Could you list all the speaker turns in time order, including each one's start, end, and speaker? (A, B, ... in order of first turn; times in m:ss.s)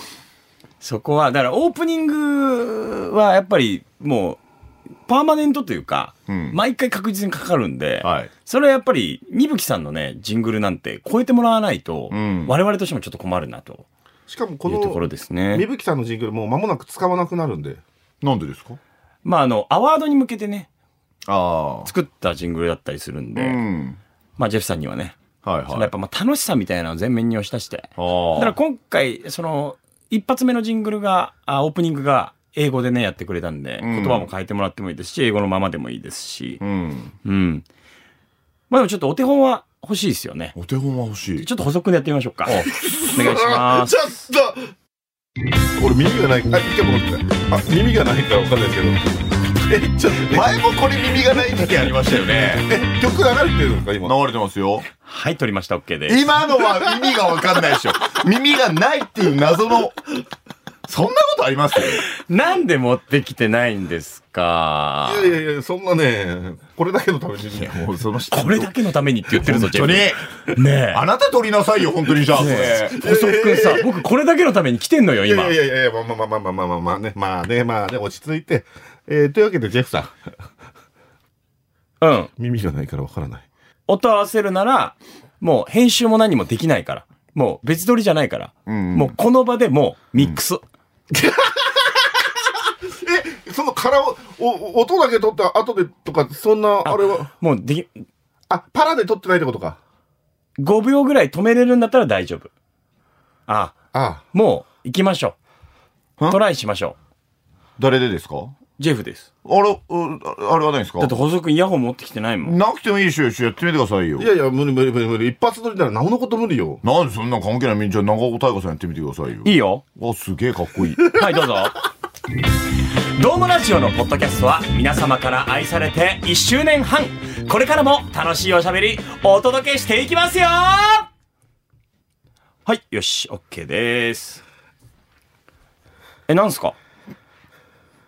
0:00.8-0:04.4 A
0:05.1-0:13.8 A
0:06.3-0:06.6 B
0:08.0-0:08.3 B
0:12.1-0:12.5 B
0:14.3-0:17.8 C
0:14.6-0:15.6 A
0:18.2-0:18.8 B
0:19.2-0:20.7 A
0:21.2-0:21.9 B
0:21.8-0:23.6 A
0:23.3-0:24.0 B
0:24.4-0:25.2 A
0:25.4-0:25.9 B
0:25.7-0:36.6 A
0:28.0-0:28.6 B
0:33.8-0:34.3 B
0:36.6-0:37.1 B
0:37.2-0:37.6 A
0:38.7-0:40.5 A
0:40.5-0:41.4 B
0:41.4-0:44.2 A
0:42.6-0:44.7 C
0:45.8-0:49.0 C
0:49.6-0:50.6 C
0:50.2-0:52.7 B
0:52.6-0:54.1 C
0:54.0-0:54.8 B
0:55.0-0:56.4 A
0:56.1-1:00.0 B
1:00.8-1:02.0 B
1:02.1-1:05.3 A
1:05.0-1:07.8 C
1:07.5-1:08.7 B
1:08.3-1:11.0 A
1:09.3-1:10.2 B
1:10.9-1:13.0 B
1:12.3-1:15.6 A
1:12.5-1:14.0 C
1:15.2-1:20.1 C
1:22.0-1:22.3 A
1:22.4-1:23.4 C
1:23.9-1:30.6 A
1:28.6-1:29.2 B
1:31.1-1:32.0 C
1:32.8-1:37.3 C
1:36.8-1:38.0 A
1:38.5-1:39.8 C
1:40.6-1:42.5 A
1:43.5-1:43.8 A
1:43.9-1:44.2 C
1:44.3-1:45.4 A
1:46.3-1:47.0 A
1:47.8-1:48.6 B
1:48.8-1:49.3 A
1:49.4-1:51.2 B
1:51.0-1:52.6 A
1:52.4-1:54.3 B
1:54.2-1:56.8 C
1:56.8-2:01.1 B
1:59.4-1:59.8 A
2:01.1-2:01.8 A
2:03.2-2:11.1 A
2:12.6-2:14.4 A
2:16.3-2:16.8 A